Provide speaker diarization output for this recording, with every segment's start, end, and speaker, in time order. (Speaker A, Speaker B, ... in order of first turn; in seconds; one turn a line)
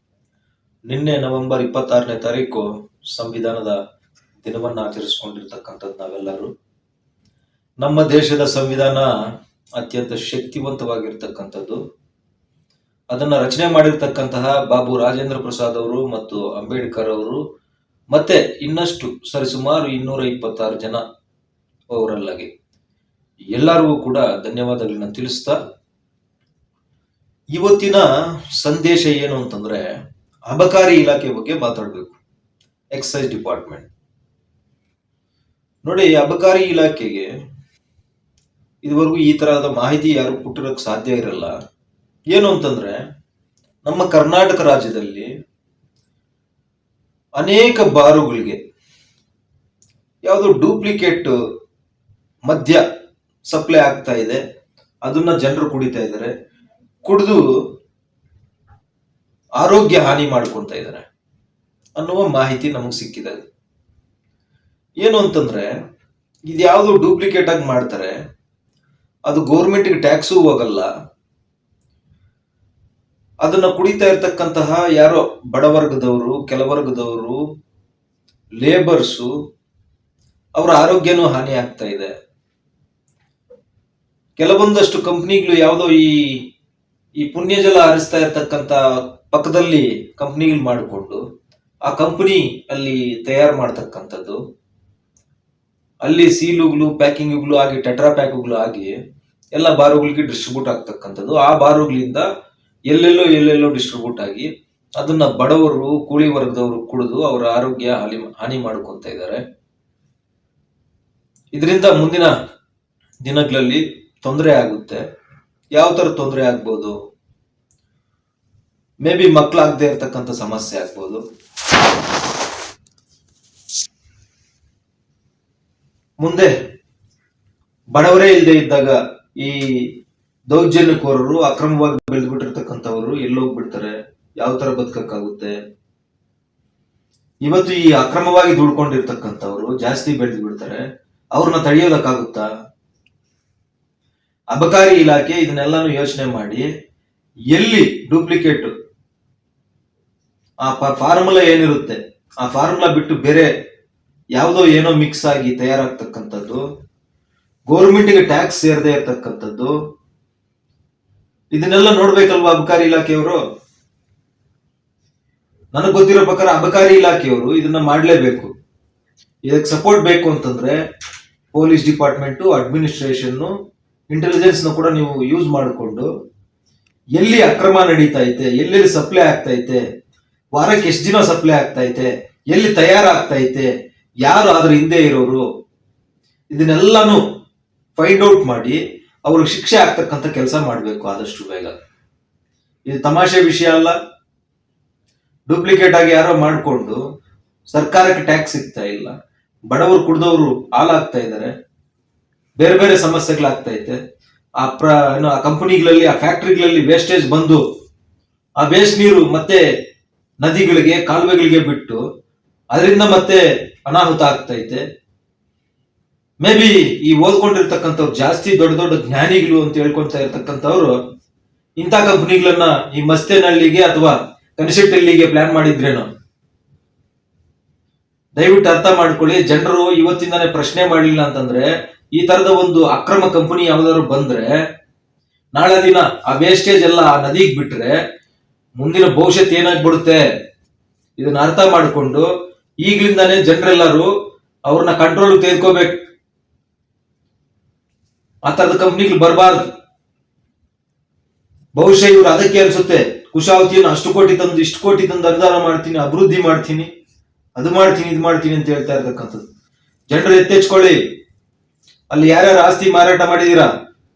Speaker A: 0.9-3.8
Speaker A: 4.4-6.5
Speaker A: 7.8-9.1
Speaker A: 9.8-11.8
Speaker A: 13.1-17.4
Speaker A: 18.1-21.0
Speaker A: 21.9-22.5
Speaker A: 23.5-25.6
Speaker A: 27.5-29.9
Speaker A: 30.5-32.2
Speaker A: 32.9-33.9
Speaker A: 35.8-37.3
Speaker A: 38.8-41.5
Speaker A: 42.3-43.0
Speaker A: 43.9-45.3
Speaker A: 47.4-48.6
Speaker A: 50.2-51.3
Speaker A: 52.5-52.8
Speaker A: 53.5-54.4
Speaker A: 55.0-56.3
Speaker A: 57.0-57.4
Speaker A: 59.6-61.0
Speaker A: 62.0-63.4
Speaker A: 65.0-65.7
Speaker A: 66.5-68.2
Speaker A: 69.3-70.9
Speaker A: 73.4-77.4
Speaker A: 78.6-79.3
Speaker A: 80.6-82.1
Speaker A: 84.4-86.4
Speaker A: 87.2-91.2
Speaker A: 91.8-94.4
Speaker A: 96.0-98.9
Speaker A: 99.5-102.2
Speaker A: 102.9-104.5
Speaker A: 105.0-109.4
Speaker A: 111.5-112.3
Speaker A: 113.2-115.0
Speaker A: 115.7-116.9
Speaker A: 119.0-121.2
Speaker A: 126.2-126.5
Speaker A: 127.9-129.8
Speaker A: 130.5-135.5
Speaker A: 137.4-140.8
Speaker A: 141.3-142.5
Speaker A: 144.5-146.7
Speaker A: 147.5-148.7
Speaker A: 150.6-153.5
Speaker A: 154.3-156.6
Speaker A: 157.7-159.7
Speaker A: 161.5-163.4
Speaker A: 165.7-168.5
Speaker A: 169.5-170.8
Speaker A: 171.5-173.5
Speaker A: 174.1-176.1
Speaker A: 177.2-179.8
Speaker A: 180.5-183.7
Speaker A: 184.2-185.4
Speaker A: 186.5-187.2
Speaker A: 188.0-191.7
Speaker A: 192.9-193.9
Speaker A: 195.5-197.0
Speaker A: 197.7-199.1
Speaker A: 199.7-201.5
Speaker A: 202.6-204.0
Speaker A: 204.6-207.6
Speaker A: 208.6-209.6
Speaker A: 210.4-212.0
Speaker A: 212.7-214.8
Speaker A: 216.4-220.9
Speaker A: 221.8-226.1
Speaker A: 228.4-234.5
Speaker A: 235.5-238.0
Speaker A: 238.8-240.2
Speaker A: 241.2-242.2
Speaker A: 242.8-244.1
Speaker A: 244.7-246.0
Speaker A: 248.4-249.6
Speaker A: 251.8-256.9
Speaker A: 257.6-259.4
Speaker A: 260.1-261.0
Speaker A: 262.1-263.7